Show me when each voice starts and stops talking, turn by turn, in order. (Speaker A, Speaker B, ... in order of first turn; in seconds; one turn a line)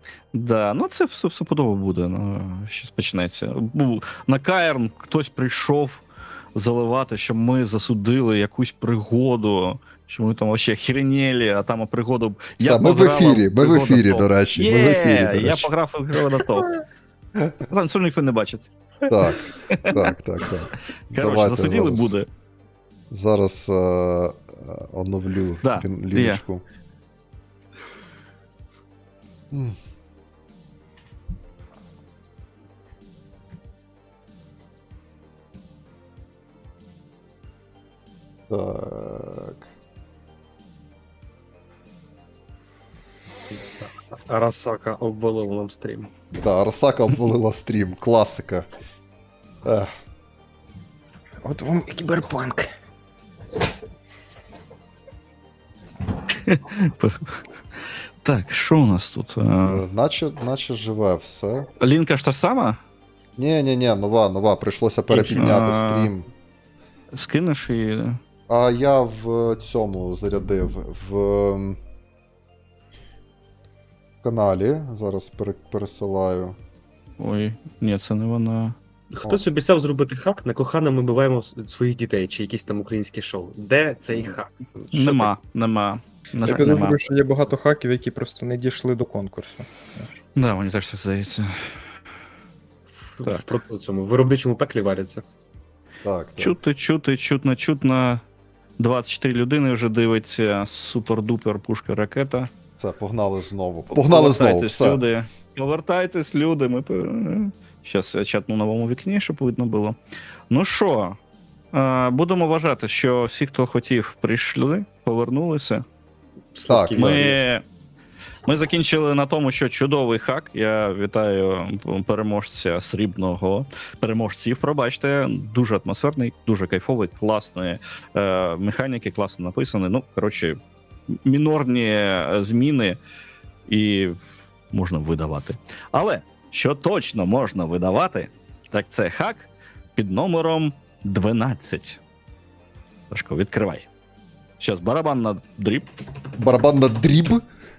Speaker A: 0.3-16.7
Speaker B: 12.6-15.7
Speaker A: 17.7-20.1
Speaker B: 19.1-19.4
Speaker B: 19.9-22.1
Speaker A: 21.1-22.3
Speaker B: 23.1-26.6
Speaker A: 25.6-26.4
Speaker B: 29.5-29.8
Speaker B: 38.5-39.7
Speaker C: 43.5-46.1
Speaker B: 46.4-48.7
Speaker B: 49.6-49.9
Speaker D: 51.4-52.7
Speaker A: 56.5-57.3
Speaker A: 58.2-59.8
Speaker B: 59.6-61.7
Speaker A: 61.8-62.8
Speaker B: 63.4-66.2
Speaker A: 65.1-66.1
Speaker A: 67.1-68.2
Speaker B: 68.5-71.8
Speaker B: 74.2-76.5
Speaker A: 77.2-78.8
Speaker C: 79.1-85.3
Speaker A: 84.9-87.0
Speaker D: 86.5-90.1
Speaker A: 90.4-91.5
Speaker C: 92.9-95.2
Speaker B: 96.0-96.5
Speaker A: 96.4-98.2
Speaker A: 98.8-102.5
Speaker B: 102.8-105.0
Speaker A: 103.9-110.0
Speaker A: 110.5-111.2
Speaker A: 111.7-115.8
Speaker C: 116.5-117.4
Speaker B: 116.7-117.4
Speaker A: 117.0-117.6
Speaker A: 118.5-130.6
Speaker A: 131.1-133.0
Speaker A: 133.7-134.2
Speaker A: 134.7-142.0
Speaker A: 143.1-143.9
Speaker A: 144.6-145.9
Speaker B: 146.4-147.4